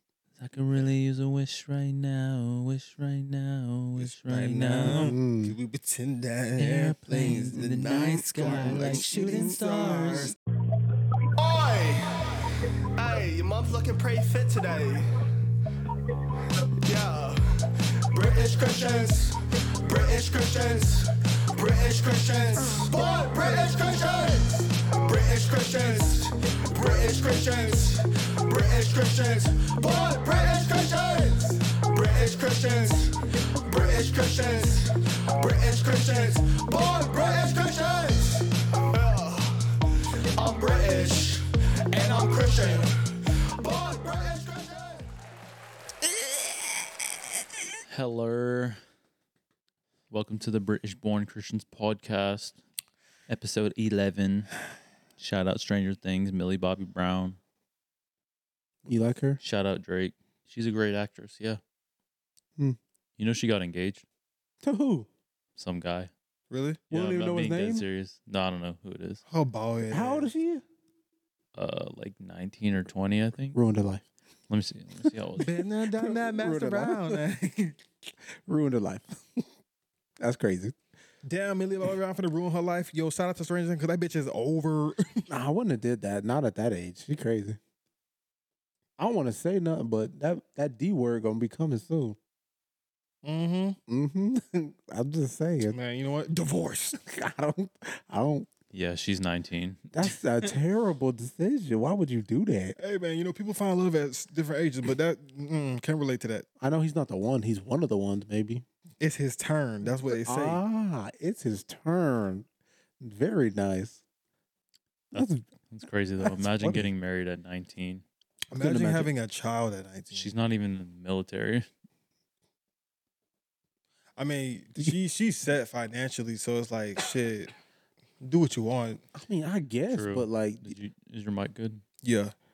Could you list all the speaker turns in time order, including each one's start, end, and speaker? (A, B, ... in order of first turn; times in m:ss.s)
0:00.4-0:05.1 A
0:04.0-0:10.4 B
0:04.8-0:05.6 C
0:06.6-0:10.3 A
0:08.6-0:09.3 C
0:11.3-0:15.2 D
0:16.8-0:45.1 D
0:47.9-0:48.8 A
0:50.1-0:52.6 A
0:53.3-0:54.6 A
0:55.2-0:57.4 A
0:58.9-0:59.4 C
0:59.4-1:01.6 A
1:03.2-1:04.0 A
1:04.6-1:05.1 C
1:05.6-1:06.1 A
1:06.5-1:06.8 B
1:06.9-1:07.8 C
1:06.9-1:09.2 A
1:09.3-1:10.3 B
1:09.9-1:10.6 C
1:11.6-1:13.6 A
1:13.5-1:14.0 C
1:14.5-1:15.6 A
1:15.4-1:17.8 B
1:15.9-1:17.2 C
1:18.2-1:19.4 C
1:20.2-1:20.8 C
1:21.2-1:25.2 B
1:25.3-1:27.6 C
1:29.0-1:32.2 C
1:33.2-1:33.8 B
1:33.9-1:35.8 C
1:35.7-1:37.0 B
1:36.9-1:38.5 C
1:38.7-1:40.1 A
1:39.9-1:42.8 C
1:42.8-1:46.4 B
1:46.6-1:48.6 C
1:49.0-1:50.6 B
1:49.9-1:52.4 C
1:53.0-1:54.0 C
1:55.1-1:58.0 A
1:55.1-1:55.4 C
1:56.2-1:56.9 C
1:58.5-2:00.3 B
1:58.5-1:59.1 C
2:00.1-2:01.7 A
2:04.2-2:07.5 B
2:08.2-2:09.0 B
2:09.1-2:10.8 C
2:09.9-2:11.8 A
2:12.0-2:12.3 B